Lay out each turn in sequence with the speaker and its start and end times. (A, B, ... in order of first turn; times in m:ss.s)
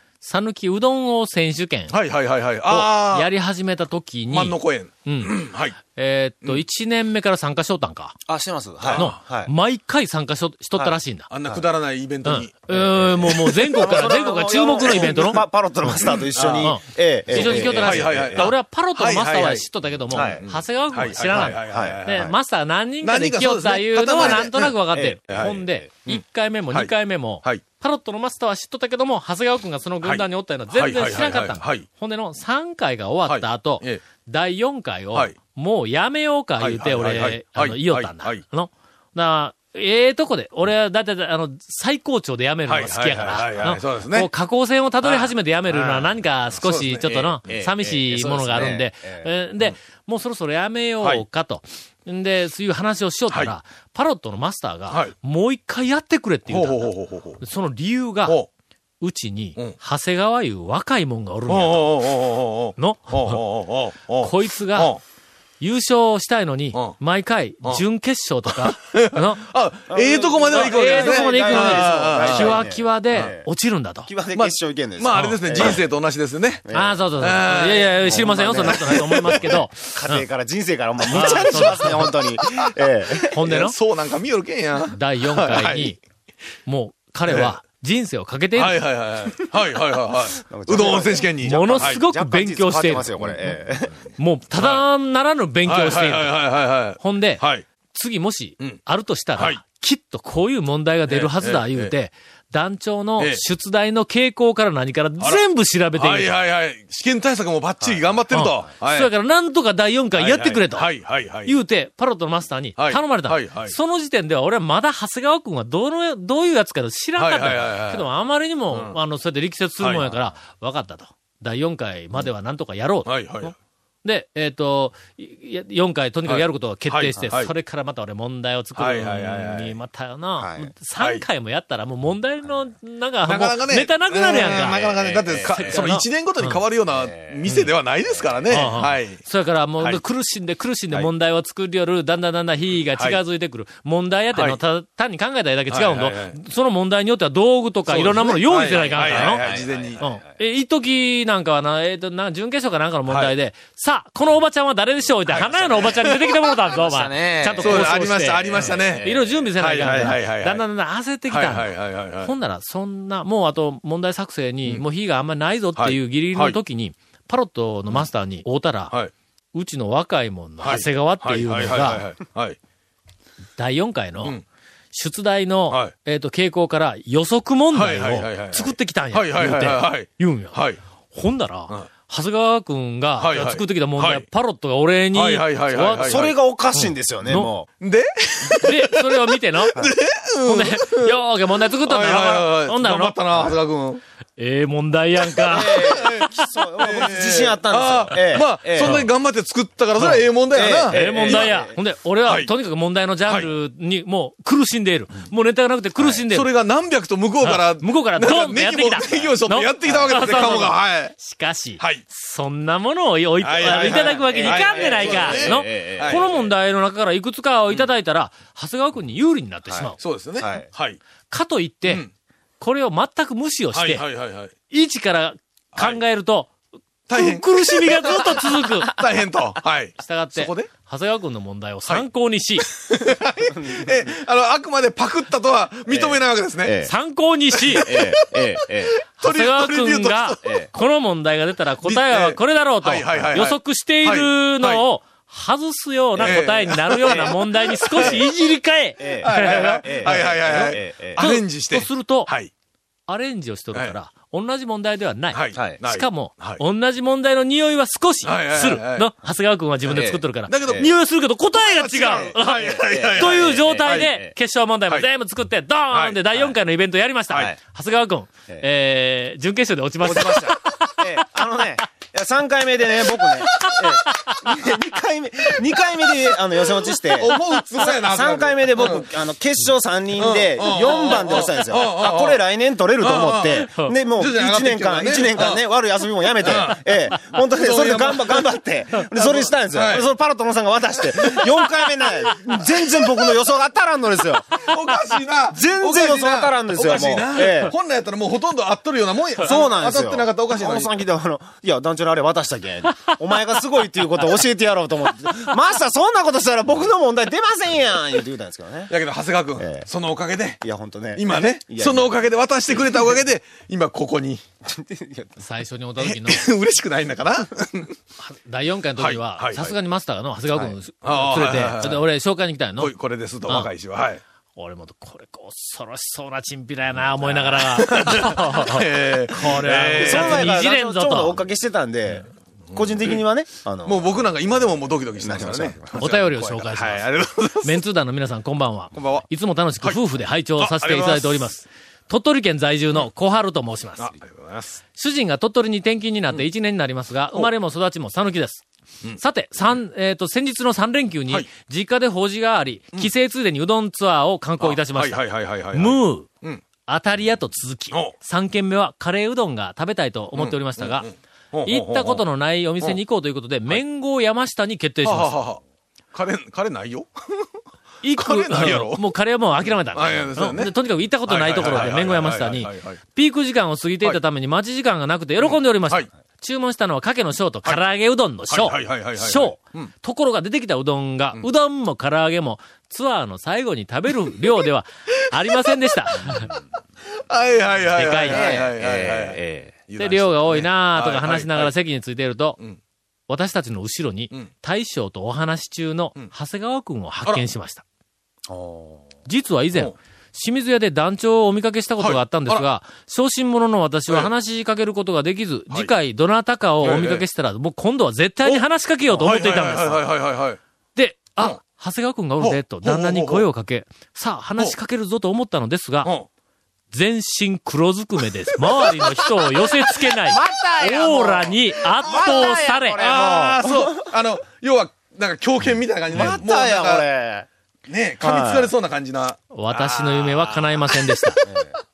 0:00.2-0:02.0 A
0:01.9-0:03.3 B
0:02.7-0:08.2 A
0:04.3-0:05.8 B
0:08.3-0:09.5 C
0:08.8-0:09.1 B
0:09.0-0:11.3 A
0:11.3-0:14.2 B
0:12.2-0:58.4 A
0:13.8-0:18.5 C
0:14.8-0:15.4 B
0:16.0-0:16.7 B
0:17.3-0:22.3 B
0:20.1-0:20.4 C
0:21.4-0:22.3 C
0:23.0-0:24.7 B
0:24.9-0:25.5 C
0:25.3-0:26.9 B
0:30.0-0:31.8 B
0:33.3-0:34.0 B
0:36.6-0:38.4 B
0:42.7-0:44.3 B
0:45.0-0:47.4 B
0:47.5-0:49.3 C
0:54.9-0:55.1 B
0:56.5-0:57.4 B
0:59.0-1:01.9 A
1:01.5-1:05.0 B
1:02.8-1:03.4 A
1:04.2-1:04.9 A
1:05.6-1:09.4 A
1:08.5-1:12.6 B
1:09.9-1:13.5 C
1:10.5-1:14.1 A
1:14.1-1:15.8 C
1:14.3-1:16.6 B
1:15.1-1:15.4 A
1:16.6-1:17.0 C
1:16.7-1:20.3 A
1:17.2-1:19.6 B
1:18.0-1:23.4 C
1:21.1-1:22.1 A
1:21.1-1:22.7 B
1:23.2-1:25.9 B
1:23.3-1:23.8 A
1:24.9-1:26.0 A
1:26.6-1:28.8 A
1:27.3-1:27.5 B
1:28.6-1:32.0 B
1:30.4-1:34.0 C
1:31.4-1:33.6 A
1:34.2-1:36.4 A
1:34.6-1:34.8 B
1:35.6-1:37.6 B
1:37.0-1:46.3 A
1:41.1-1:41.9 B
1:45.9-1:49.1 B
1:48.3-1:50.9 A
1:50.2-1:51.5 B
1:51.4-2:16.6 A
1:52.8-1:53.8 B
1:57.2-1:58.0 B
1:58.7-1:59.0 B
1:59.8-2:00.1 B
2:03.1-2:03.5 B
2:06.3-2:07.5 B
2:08.8-2:09.8 B
2:10.4-2:10.7 C
2:11.0-2:11.3 B
2:13.3-2:19.2 B
2:14.5-2:15.9 C
2:16.9-2:17.5 C
2:17.4-2:17.7 A
2:18.1-2:18.5 C
2:18.5-2:29.4 A
2:25.7-2:26.4 B
2:27.9-2:30.0 B
2:28.7-2:30.4 C
2:30.0-2:48.9 A
2:33.1-2:33.3 B
2:35.3-2:36.1 C
2:35.8-2:36.4 B
2:36.7-2:40.1 C
2:37.6-2:40.6 B
2:41.3-2:42.3 B
2:45.8-2:46.6 B
2:49.5-2:52.0 A
2:50.6-2:52.6 B
2:53.6-2:54.4 A
2:54.9-3:00.6 A
2:57.7-3:00.8 B
3:01.1-3:07.5 A
3:03.2-3:04.3 B
3:05.1-3:06.3 B
3:05.9-3:07.7 C
3:07.8-3:14.0 B
3:08.6-3:09.8 A
3:10.4-3:13.4 A
3:14.4-3:16.2 A
3:15.4-3:19.1 C
3:15.5-3:21.5 B
3:18.8-3:19.1 A
3:20.0-3:20.2 A
3:20.5-3:21.8 C
3:20.9-3:26.5 A
3:22.2-3:22.5 B
3:26.3-3:31.2 B
3:27.4-3:40.0 A
3:33.4-3:36.3 B
3:33.6-3:36.5 C
3:39.7-3:40.7 C
3:40.0-3:41.0 B
3:41.3-3:42.0 A
3:42.6-3:44.1 A
3:43.7-3:44.5 B
3:44.7-3:46.5 A
3:47.1-3:50.7 B
3:47.1-3:49.0 A
3:50.0-3:52.7 A
3:52.6-3:56.8 B
3:53.6-3:53.9 C
3:55.9-3:56.9 C
3:56.8-3:58.2 A
3:57.6-4:00.6 B
3:57.7-3:59.0 C
3:59.2-4:12.3 A
4:00.4-4:00.7 C
4:01.8-4:04.8 B
4:06.2-4:07.4 C
4:06.2-4:08.2 B
4:07.9-4:08.3 C
4:09.0-4:11.3 C
4:09.2-4:12.5 B
4:13.1-4:31.2 A
4:15.3-4:16.6 B
4:18.2-4:19.1 B
4:19.8-4:20.9 C
4:19.9-4:20.9 B
4:21.7-4:24.2 B
4:22.1-4:24.4 C
4:25.9-4:26.2 B
4:27.3-4:27.6 C
4:30.0-4:54.7 C
4:33.6-4:34.4 A
4:34.4-4:34.8 B
4:37.0-4:39.1 B
4:40.2-4:42.4 B
4:43.0-4:45.6 B
4:46.4-4:48.5 B
4:49.1-4:50.1 B
4:51.2-4:51.4 B
4:54.5-5:01.0 B
4:55.5-4:57.8 C
4:59.4-5:08.9 C
5:08.9-5:10.6 B
5:09.6-5:09.9 C
5:10.6-5:12.2 C
5:11.1-5:14.4 B
5:14.6-5:15.4 C
5:15.4-5:16.5 A
5:16.0-5:17.9 B
5:18.2-5:22.9 A
5:19.0-5:19.8 B
5:21.0-5:22.0 B
5:22.8-5:24.2 B
5:24.6-5:31.4 A
5:27.6-5:30.6 B
5:27.9-5:28.2 C
5:29.9-5:34.6 C
5:32.7-5:33.2 B
5:33.8-5:37.8 B
5:35.2-5:36.0 C
5:36.0-5:37.1 A
5:37.6-5:44.1 A
5:38.9-5:39.3 B
5:40.6-5:41.5 B
5:44.0-5:44.8 B
5:45.0-5:48.6 A
5:49.2-5:55.2 A
5:54.6-5:56.6 B
5:55.7-5:56.3 A
5:56.9-6:01.1 A
6:00.3-6:02.2 B
6:01.6-6:05.4 A
6:05.0-6:05.6 B
6:06.1-6:07.4 B
6:08.0-6:26.6 A
6:08.2-6:09.1 B
6:09.9-6:10.7 B
6:11.3-6:13.0 B
6:15.4-6:16.1 B
6:18.5-6:19.9 B
6:26.2-6:26.6 B
6:27.3-6:31.7 B
6:27.9-6:28.6 A
6:28.3-6:29.8 C
6:30.0-6:32.6 A
6:33.3-6:37.8 A
6:38.5-6:39.0 C
6:39.3-6:50.1 A
6:42.0-6:42.6 B
6:46.8-6:47.2 B
6:48.4-6:50.6 B
6:50.9-6:56.1 A
6:52.4-6:53.4 B
6:56.9-7:03.1 A
6:58.7-6:59.2 B
7:00.3-7:04.1 C
7:02.1-7:07.1 B
7:06.1-7:07.5 C
7:06.1-7:06.4 A
7:07.9-7:11.6 B
7:08.2-7:08.7 C
7:09.5-7:11.4 A
7:11.4-7:11.8 C